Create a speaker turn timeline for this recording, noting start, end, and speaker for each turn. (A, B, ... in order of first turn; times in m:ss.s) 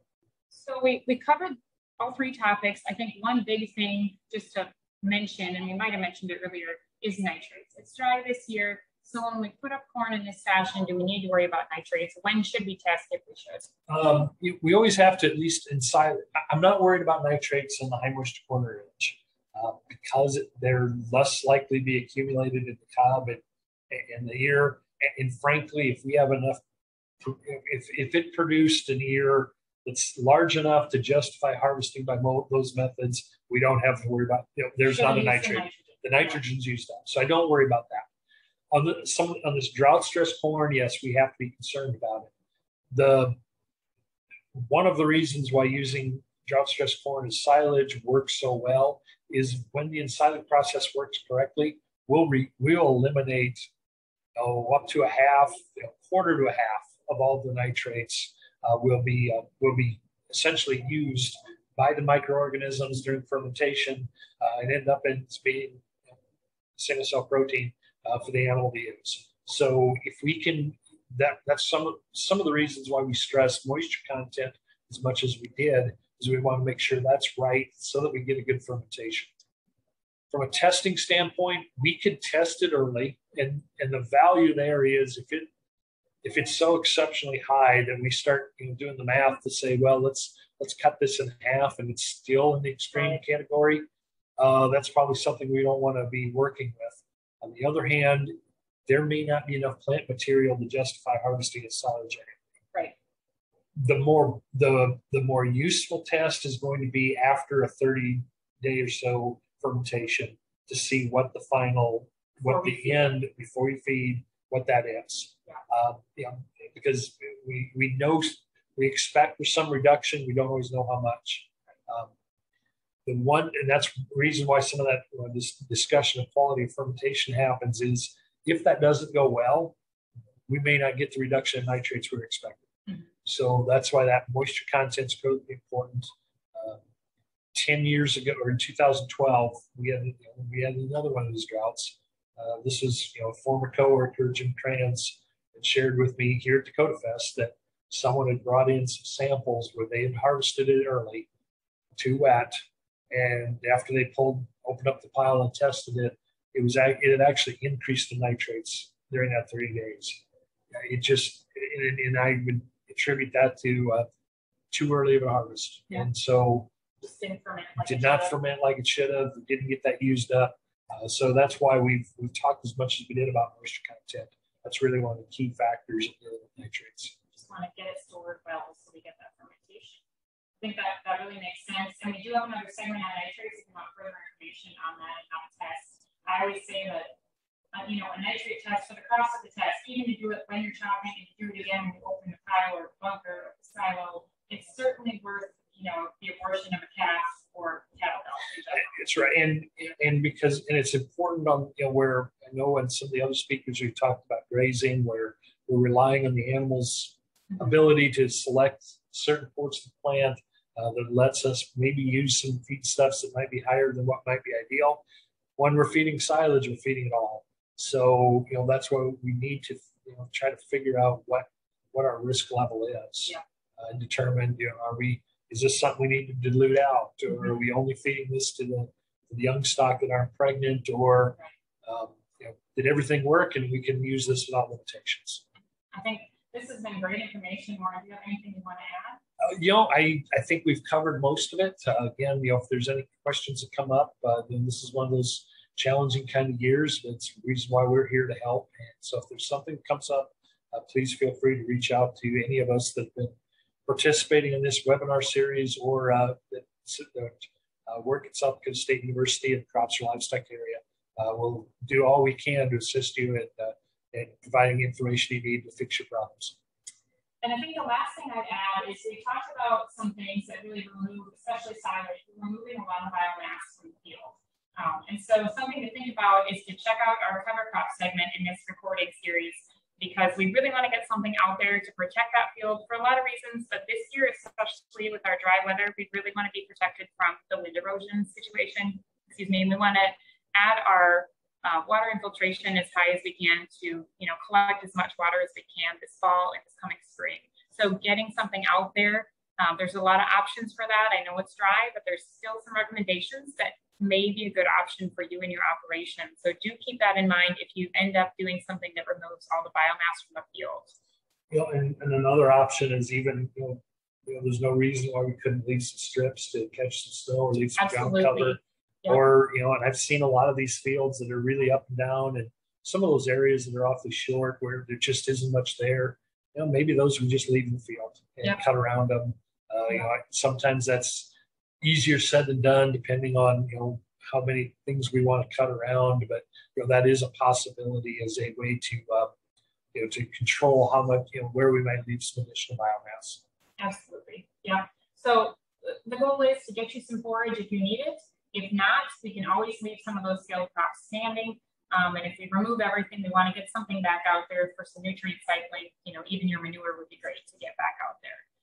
0:00.5-0:13.7 A
0:13.9-0:26.6 B
0:27.2-0:38.1 B
0:34.8-0:36.4 A
0:38.7-0:42.3 B
0:42.9-0:43.4 B
0:44.5-0:53.6 B
0:54.4-1:06.2 B
1:06.8-1:19.3 B
1:20.3-1:25.5 B
1:26.2-1:33.8 B
1:34.4-1:38.3 B
1:38.8-1:42.4 B
1:43.7-2:02.1 B
1:52.4-1:53.1 A
2:03.0-2:09.7 B
2:10.5-2:12.6 B
2:13.2-2:16.8 B
2:17.5-2:31.3 B
2:32.0-2:32.6 B
2:33.1-2:44.1 B
2:44.7-2:46.7 B
2:47.0-2:48.4 A
2:47.8-2:57.1 B
2:57.3-3:00.0 A
3:00.6-3:07.1 A
3:07.7-3:18.9 A
3:18.8-3:35.0 B
3:35.6-3:55.4 B
3:55.9-3:59.2 A
3:59.4-4:13.3 B
4:13.8-4:26.6 B
4:27.4-5:10.9 A
5:11.5-5:39.3 B
5:17.8-5:19.2 A
5:39.9-5:43.4 B
5:43.8-5:58.4 A